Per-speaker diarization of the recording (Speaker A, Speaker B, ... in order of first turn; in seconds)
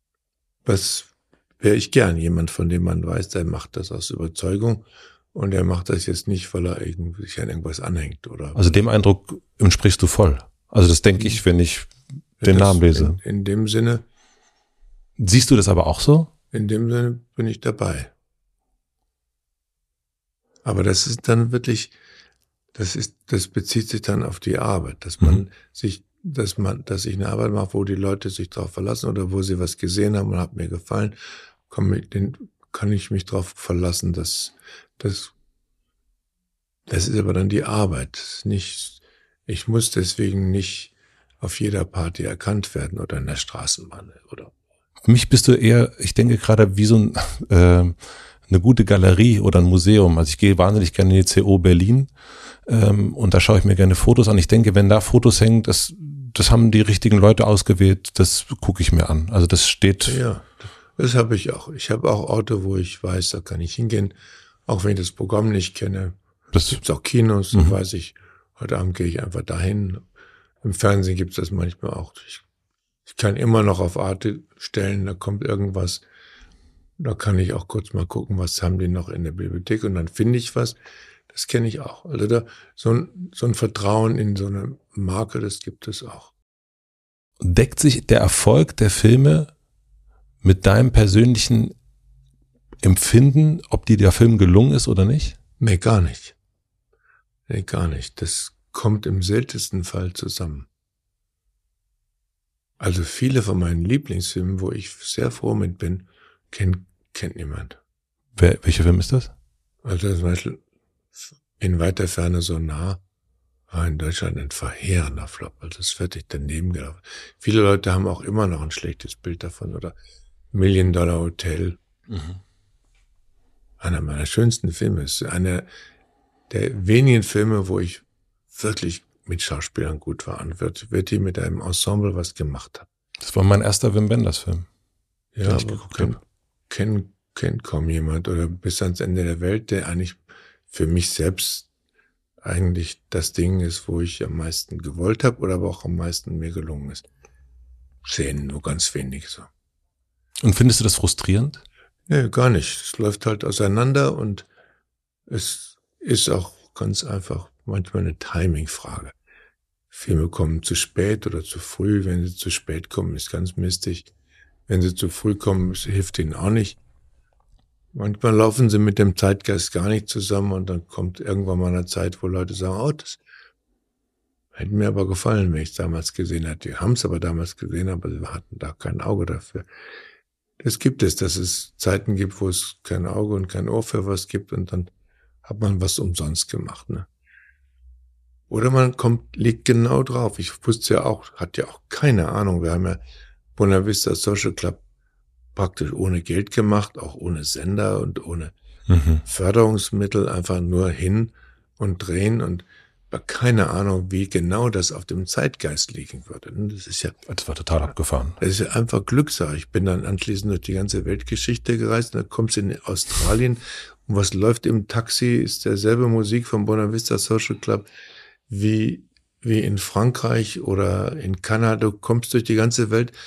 Speaker A: 0.7-8.6, 12.4-14.0, 16.5-18.1, 20.6-21.9, 22.8-31.2, 31.7-35.3, 36.9-44.5, 60.0-64.1, 64.7-66.2, 66.7-70.0, 70.6-72.4, 73.1-76.0, 77.0-80.8, 81.3-86.3, 95.6-96.3, 97.5-100.7, 102.8-107.8, 109.8-110.6, 111.6-113.0, 113.7-119.9, 120.5-121.8, 123.8-125.7, 126.5-132.9, 135.3-141.7, 142.4-147.1, 148.0-149.5, 152.1-154.5, 155.3-159.1, 159.9-164.1, 164.7-166.8, 167.9-173.2, 174.6-179.7, 180.6-184.9, 185.4-187.1, 188.5-193.0, 193.6-194.8, 195.6-198.5, 199.2-207.2, 208.4-217.9, 218.5-223.1
Speaker B: 8.6-13.2, 15.2-16.3, 45.0-48.0, 48.5-52.1, 52.7-60.2, 66.5-66.8, 87.4-89.5, 90.4-91.8, 92.8-95.4, 108.4-109.3, 122.1-122.4, 133.2-134.7, 135.4-136.2, 150.4-151.6, 198.9-199.2, 207.3-208.4